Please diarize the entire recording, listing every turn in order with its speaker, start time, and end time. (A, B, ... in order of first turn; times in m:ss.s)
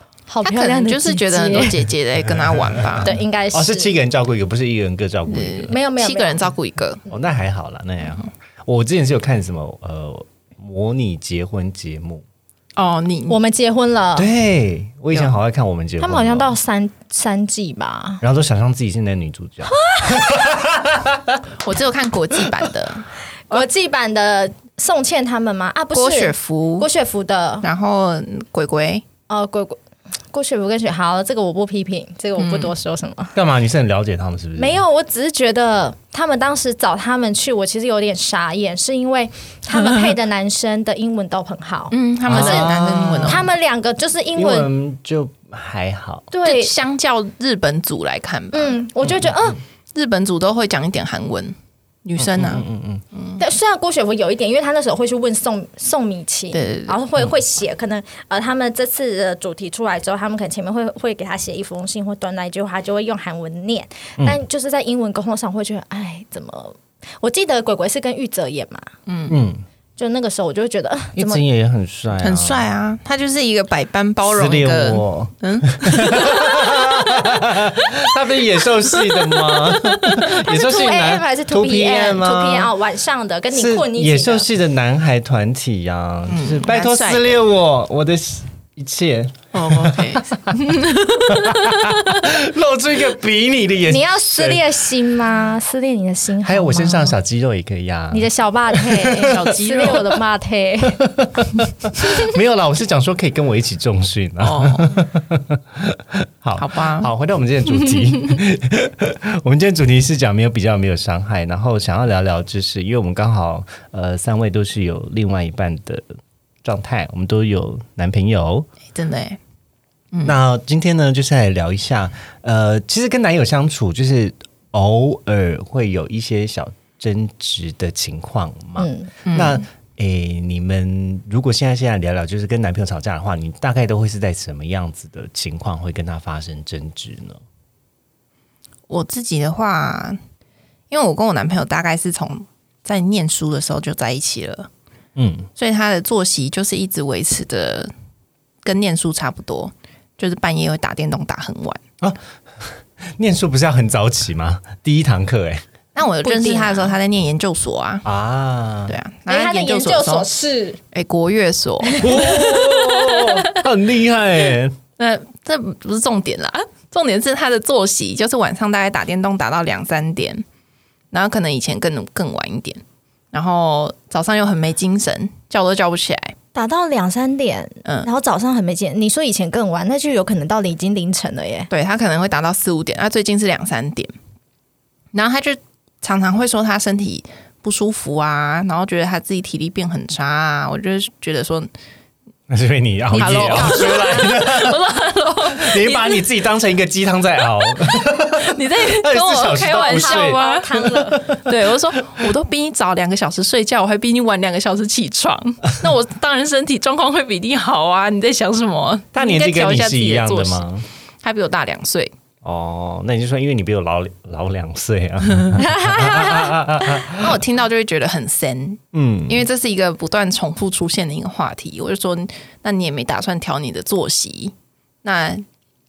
0:00.3-0:01.9 A
0:00.4-0:03.1 B
0:02.3-0:05.7 C
0:03.0-0:03.9 A
0:05.3-0:07.0 B
0:05.7-0:06.5 A
0:07.1-0:12.2 C
0:12.8-0:13.4 B
0:13.3-0:14.3 A
0:14.2-0:16.5 C
0:16.0-0:18.2 A
0:18.2-0:21.4 C
0:19.7-0:20.5 A
0:21.6-0:23.6 B
0:23.5-0:27.6 A
0:25.9-0:26.9 B
0:27.6-0:29.0 B
0:29.3-0:29.8 A
0:30.3-0:33.4 A
0:32.4-0:32.7 B
0:33.3-0:34.8 C
0:34.6-0:44.7 A
0:41.9-0:43.5 B
0:42.3-0:43.5 C
0:44.3-0:46.3 C
0:46.3-0:46.7 A
0:46.4-0:48.8 B
0:48.5-0:49.6 A
0:49.0-0:49.5 C
0:49.9-0:53.4 B
0:52.2-0:53.0 C
0:53.4-1:08.9 A
0:56.5-0:57.0 B
1:09.0-1:09.3 B
1:09.3-1:09.6 C
1:10.0-1:11.4 A
1:11.2-1:12.6 C
1:12.2-1:16.8 B
1:14.2-1:22.7 C
1:20.2-1:24.5 A
1:23.5-1:30.6 C
1:26.3-1:27.4 B
1:29.5-1:32.2 B
1:31.2-1:34.7 C
1:33.9-1:37.2 A
1:36.4-1:39.3 C
1:38.1-1:41.1 A
1:39.2-1:40.2 B
1:41.0-1:56.1 C
1:42.0-1:42.2 A
1:44.4-1:44.9 B
1:46.6-1:47.1 B
1:56.6-1:58.7 C
1:58.9-1:59.4 B
2:00.2-2:17.4 C
2:08.8-2:09.1 A
2:09.2-2:09.6 B
2:18.9-2:20.2 B
2:20.9-2:24.7 B
2:25.2-2:25.5 C
2:25.6-2:27.9 B
2:28.6-2:31.8 B
2:32.0-2:35.7 C
2:35.9-2:38.0 B
2:36.2-2:36.9 A
2:38.0-2:39.0 C
2:38.9-2:40.3 B
2:39.3-2:40.8 A
2:40.9-2:43.4 B
2:41.9-2:44.8 C
2:45.0-2:50.4 B
2:51.1-2:56.4 B
2:56.5-3:01.7 A
3:01.7-3:04.1 B
3:05.1-3:11.7 B
3:12.5-3:14.8 C
3:13.1-3:16.3 B
3:13.2-3:14.4 A
3:15.6-3:21.5 C
3:17.8-3:30.6 B
3:19.7-3:21.2 A
3:29.1-3:30.8 C
3:31.2-3:32.1 B
3:32.4-3:37.4 C
3:35.6-3:36.6 A
3:37.0-3:45.4 B
3:38.9-3:39.4 C